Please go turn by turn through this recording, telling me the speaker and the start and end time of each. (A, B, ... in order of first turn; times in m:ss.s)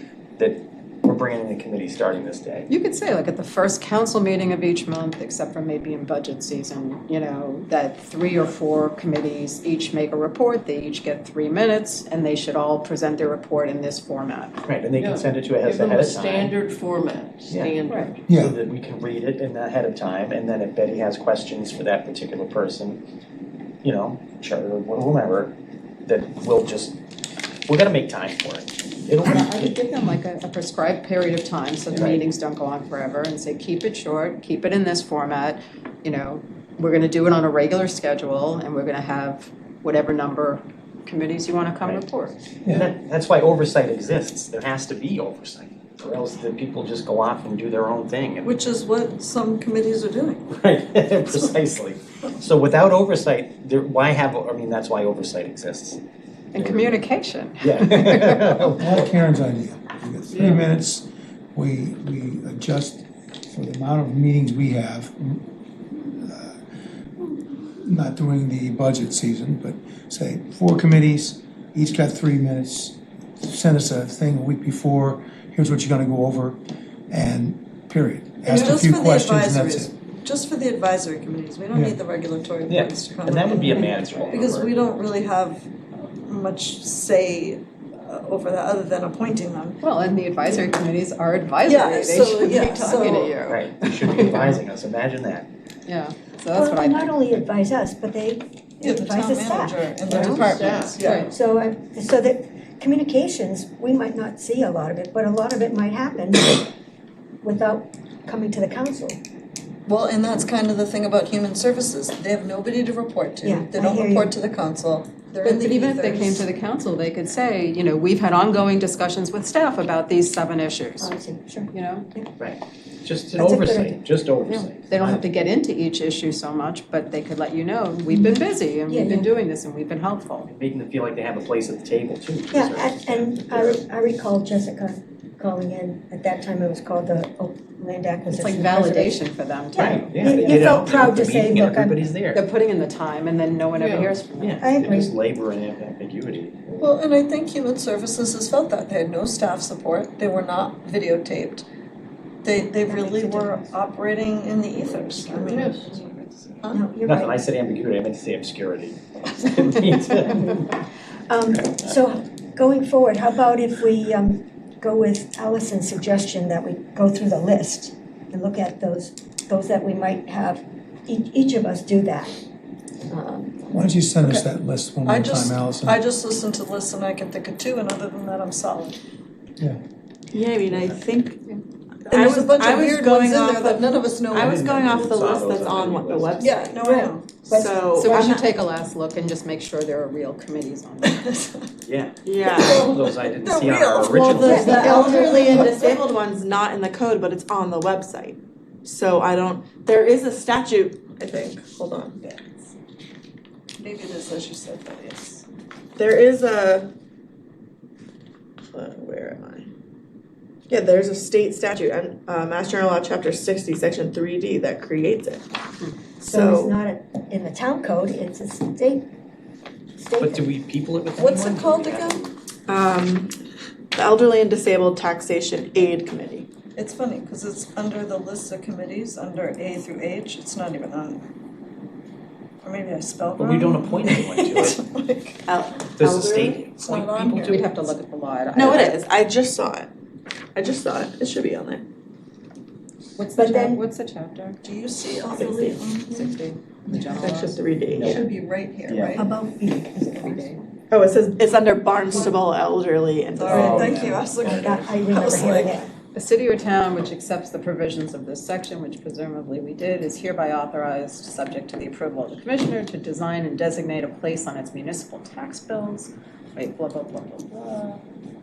0:00.4-0:02.7 A
0:02.7-0:14.6 B
0:14.6-0:16.6 A
0:14.9-0:18.2 C
0:17.5-0:17.8 A
0:18.3-0:18.6 D
0:18.3-0:23.0 A
0:23.8-0:27.0 A
0:27.7-0:29.7 A
0:29.2-0:42.4 B
0:31.9-0:32.2 A
0:42.7-0:48.5 A
0:48.4-0:50.5 E
0:50.5-0:56.0 A
0:56.5-0:58.8 B
0:56.6-0:56.9 A
0:57.6-0:59.1 A
0:58.8-1:06.6 D
1:00.4-1:00.6 C
1:07.8-1:16.6 D
1:17.1-1:19.9 D
1:18.4-1:29.8 E
1:21.7-1:22.0 D
1:22.7-1:24.7 A
1:23.6-1:24.3 B
1:29.8-1:33.4 B
1:31.6-1:33.6 E
1:33.5-1:35.5 A
1:34.0-1:34.6 B
1:35.9-1:37.4 B
1:36.5-1:39.9 F
1:38.8-1:41.3 E
1:40.1-1:41.3 B
1:40.1-1:41.3 C
1:41.2-1:46.7 F
1:47.4-1:49.2 F
1:49.9-1:56.5 E
1:53.4-1:54.3 F
1:55.4-2:01.1 B
2:01.0-2:02.3 F
2:01.7-2:02.1 B
2:02.4-2:05.5 A
2:03.4-2:04.0 F
2:04.6-2:10.5 B
2:08.1-2:09.3 F
2:10.5-2:13.8 A
2:12.5-2:19.2 F
2:18.3-2:20.5 B
2:19.8-2:22.1 F
2:19.8-2:22.4 A
2:22.3-2:24.6 B
2:23.7-2:24.1 C
2:24.4-2:26.9 A
2:24.6-2:25.2 F
2:26.8-2:31.6 E
2:32.4-2:36.8 E
2:32.9-2:33.5 F
2:35.3-2:36.0 F
2:35.5-2:35.8 C
2:36.7-2:37.4 F
2:37.0-2:40.8 A
2:41.3-2:52.3 F
2:53.1-2:53.6 F
2:53.7-2:56.0 D
2:54.2-2:54.5 E
2:55.0-2:59.0 E
3:00.3-3:01.4 G
3:02.0-3:06.8 G
3:02.1-3:04.6 E
3:04.3-3:06.5 A
3:06.4-3:07.4 E
3:06.8-3:08.3 F
3:07.4-3:08.5 G
3:08.0-3:11.5 B
3:11.1-3:11.6 E
3:11.8-3:15.1 A
3:12.2-3:12.9 G
3:12.5-3:15.9 E
3:14.2-3:22.5 G
3:14.4-3:15.7 F
3:23.8-3:25.4 E
3:26.0-3:26.9 G
3:28.7-3:29.7 G
3:30.7-3:35.4 G
3:36.2-3:36.7 G
3:36.3-3:39.1 F
3:40.0-3:40.5 F
3:40.2-3:42.4 A
3:41.2-3:42.2 E
3:42.7-3:43.3 G
3:44.0-3:46.5 G
3:46.8-3:51.2 E
3:52.6-3:55.4 E
3:53.4-3:54.8 A
3:55.5-3:56.6 G
3:56.0-3:57.6 A
3:56.2-3:57.7 E
3:57.4-3:59.0 B
3:58.5-3:59.9 G
4:00.6-4:01.8 G
4:03.2-4:04.6 B
4:03.4-4:03.8 F
4:04.6-4:06.3 E
4:05.2-4:06.0 G
4:06.0-4:07.6 B
4:07.0-4:08.2 G
4:07.9-4:08.2 A
4:08.0-4:09.3 E
4:08.9-4:09.2 A
4:09.2-4:10.6 F
4:10.2-4:10.6 B
4:10.9-4:14.2 G
4:13.4-4:15.8 E
4:13.5-4:14.9 A
4:13.5-4:13.9 F
4:14.5-4:15.9 F
4:16.1-4:27.8 B